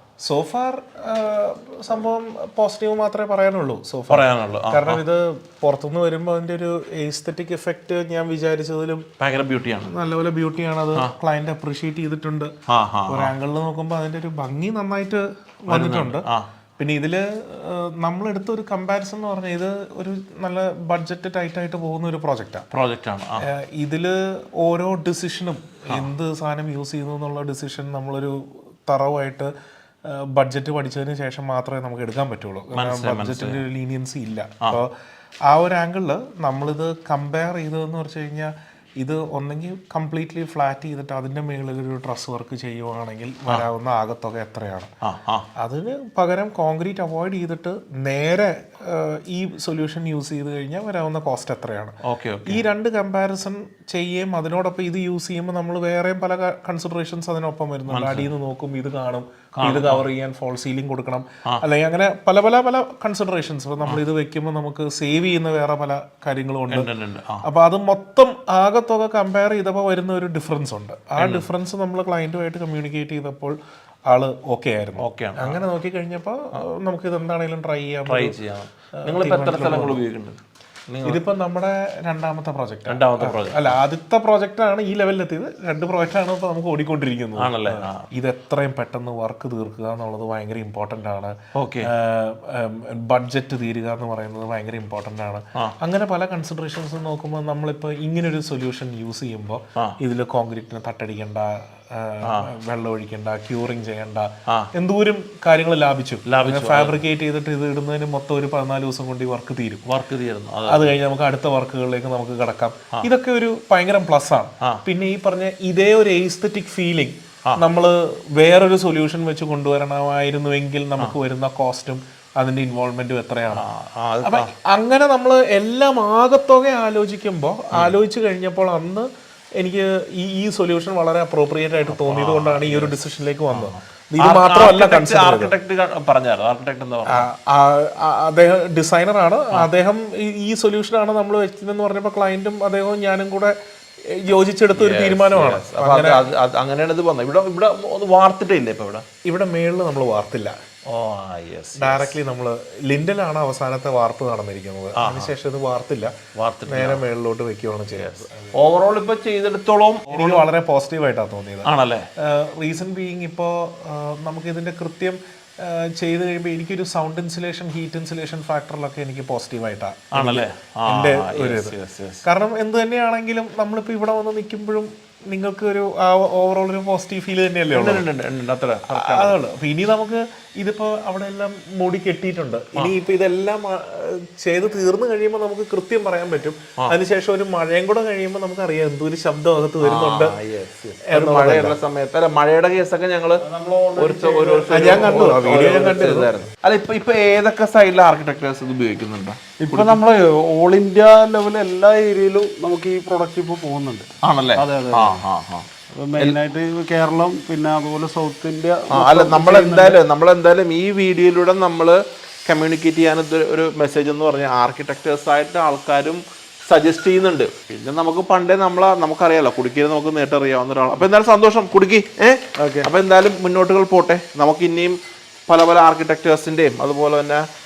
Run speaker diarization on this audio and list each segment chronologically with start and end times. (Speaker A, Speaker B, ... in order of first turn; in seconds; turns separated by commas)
Speaker A: 0.2-9.1, Speaker B: 4.1-5.0, Speaker B: 9.2-9.9, Speaker A: 9.9-12.5, Speaker B: 12.7-13.3, Speaker A: 13.1-16.3, Speaker B: 15.7-16.5, Speaker A: 16.8-22.7, Speaker B: 22.7-23.5, Speaker A: 23.4-29.5, Speaker A: 30.1-34.9, Speaker B: 32.7-33.6, Speaker A: 35.5-44.9, Speaker B: 45.0-45.5, Speaker A: 45.6-51.9, Speaker B: 52.0-52.6, Speaker A: 52.5-66.9, Speaker B: 57.9-58.3, Speaker B: 59.5-60.0, Speaker B: 66.7-67.5, Speaker A: 67.4-73.5, Speaker B: 71.2-71.4, Speaker A: 74.1-78.4, Speaker B: 75.0-75.6, Speaker B: 78.1-81.2, Speaker A: 79.0-80.0, Speaker A: 81.0-109.8, Speaker B: 82.9-83.8, Speaker B: 87.3-88.1, Speaker B: 91.5-91.9, Speaker B: 106.2-107.0, Speaker B: 109.8-110.9, Speaker A: 110.7-123.7, Speaker B: 123.5-124.5, Speaker A: 124.2-129.1, Speaker A: 129.6-135.5, Speaker B: 131.9-133.0, Speaker B: 133.5-137.3, Speaker A: 137.1-143.5, Speaker A: 144.1-146.2, Speaker B: 144.7-149.0, Speaker A: 149.2-150.5, Speaker B: 150.9-152.2, Speaker A: 151.8-156.1, Speaker B: 154.9-155.3, Speaker B: 156.3-157.0, Speaker A: 156.7-158.6, Speaker B: 157.9-160.4, Speaker A: 160.1-161.7, Speaker B: 161.6-162.0, Speaker A: 162.2-178.1, Speaker B: 170.1-172.2, Speaker B: 177.7-179.4, Speaker A: 178.9-190.3, Speaker B: 189.8-193.4, Speaker A: 191.1-191.8, Speaker C: 193.4-195.8, Speaker B: 193.9-200.0, Speaker A: 194.7-196.3, Speaker C: 199.6-205.2, Speaker B: 204.2-205.7, Speaker C: 205.9-210.0, Speaker B: 208.9-225.0, Speaker C: 222.6-222.9, Speaker B: 225.5-227.4